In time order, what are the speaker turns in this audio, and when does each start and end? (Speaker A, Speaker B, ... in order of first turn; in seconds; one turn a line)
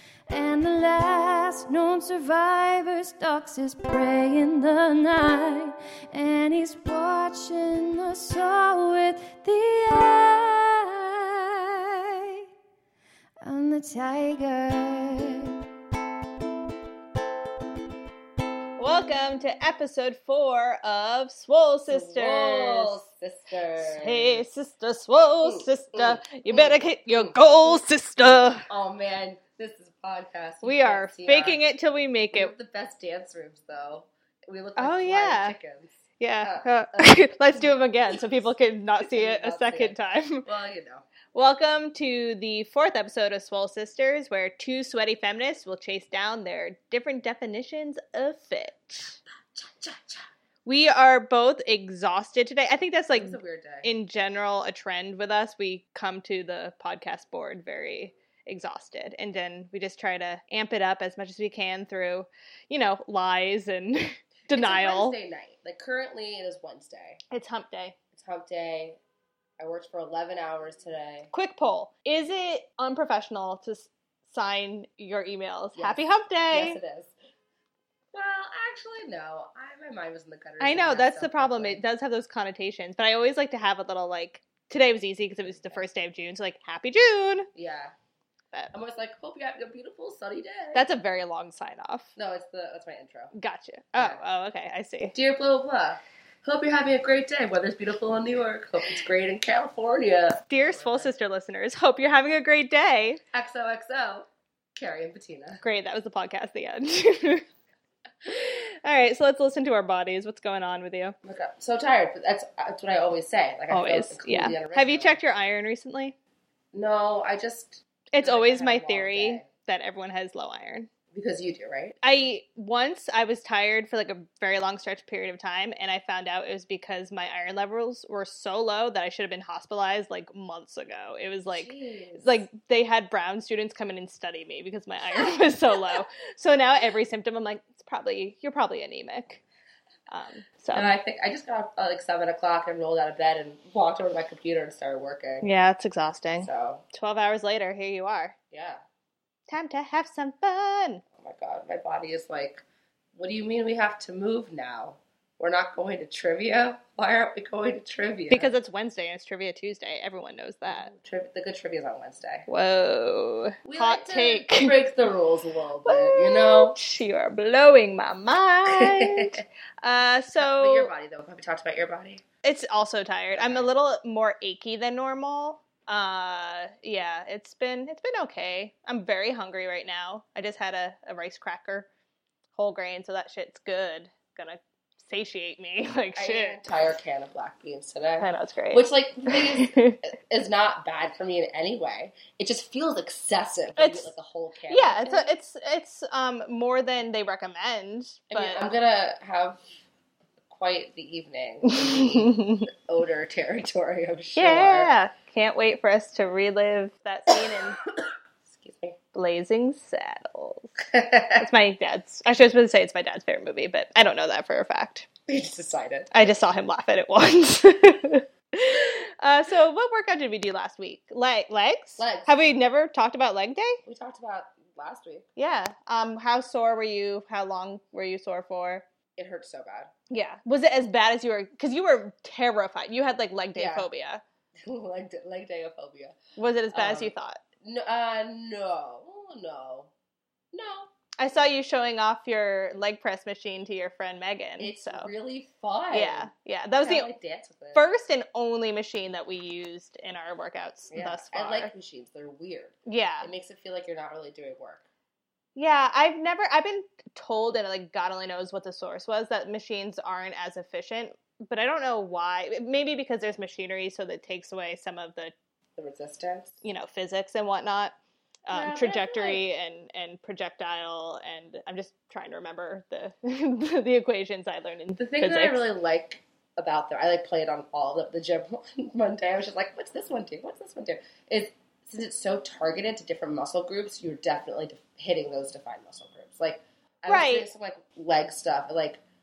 Speaker A: 0.3-12.2
Speaker A: 13.4-15.5
Speaker B: 18.8-23.0
Speaker C: 21.9-24.4
Speaker B: 23.8-28.7
Speaker C: 25.4-31.6
Speaker B: 30.6-32.5
Speaker C: 32.3-38.4
Speaker B: 34.8-35.6
Speaker B: 36.2-40.5
Speaker C: 39.0-41.0
Speaker B: 41.3-49.2
Speaker C: 49.5-50.3
Speaker B: 50.6-65.2
Speaker C: 53.1-53.9
Speaker C: 64.5-67.2
Speaker B: 67.3-68.0
Speaker C: 68.1-69.0
Speaker C: 69.6-71.3
Speaker B: 71.3-76.8
Speaker C: 75.7-77.1
Speaker C: 78.1-81.8
Speaker B: 80.6-87.5
Speaker C: 85.5-85.8
Speaker C: 87.5-87.9
Speaker C: 88.7-90.8
Speaker B: 90.7-92.1
Speaker C: 92.2-93.3
Speaker B: 93.3-95.1
Speaker C: 95.1-101.1
Speaker B: 100.5-103.2
Speaker C: 103.3-105.6
Speaker B: 105.6-107.4
Speaker B: 108.2-111.2
Speaker C: 111.2-115.2
Speaker B: 113.7-116.1
Speaker C: 116.7-119.5
Speaker B: 118.1-120.9
Speaker C: 121.1-122.0
Speaker B: 122.0-139.4
Speaker C: 131.5-132.4
Speaker B: 140.1-140.9
Speaker C: 140.7-145.4
Speaker B: 145.4-148.3
Speaker C: 146.4-146.8
Speaker C: 148.5-148.8
Speaker B: 149.5-151.0
Speaker C: 151.2-158.5
Speaker B: 158.3-160.9
Speaker C: 160.7-162.4
Speaker B: 162.5-164.8
Speaker C: 163.6-166.8
Speaker B: 165.8-170.9
Speaker C: 168.7-169.4
Speaker C: 170.3-172.2
Speaker B: 172.4-181.9
Speaker C: 173.3-173.7
Speaker B: 182.5-186.6
Speaker C: 186.2-195.3
Speaker B: 188.2-190.0
Speaker B: 193.8-194.1
Speaker B: 194.7-198.7
Speaker C: 198.3-199.6
Speaker C: 200.5-204.9
Speaker B: 201.7-202.7
Speaker B: 204.3-207.8
Speaker C: 208.0-209.0
Speaker B: 209.1-210.7
Speaker C: 210.9-211.4
Speaker B: 211.3-215.1
Speaker C: 215.3-216.1
Speaker B: 216.1-223.8
Speaker C: 222.0-222.3
Speaker C: 223.8-225.2
Speaker B: 225.4-228.8
Speaker C: 229.2-229.9
Speaker B: 230.1-234.2
Speaker C: 233.5-233.9
Speaker C: 234.6-236.2
Speaker B: 236.4-237.4
Speaker C: 236.7-239.9
Speaker C: 240.5-240.9
Speaker B: 241.2-245.1
Speaker C: 244.6-247.8
Speaker B: 245.9-247.1
Speaker B: 247.7-251.7
Speaker C: 250.9-254.8
Speaker B: 252.8-253.3
Speaker B: 255.5-265.3
Speaker C: 265.8-266.6
Speaker B: 266.6-267.9
Speaker B: 268.5-275.6
Speaker C: 268.5-269.4
Speaker C: 275.0-289.0
Speaker B: 287.1-287.5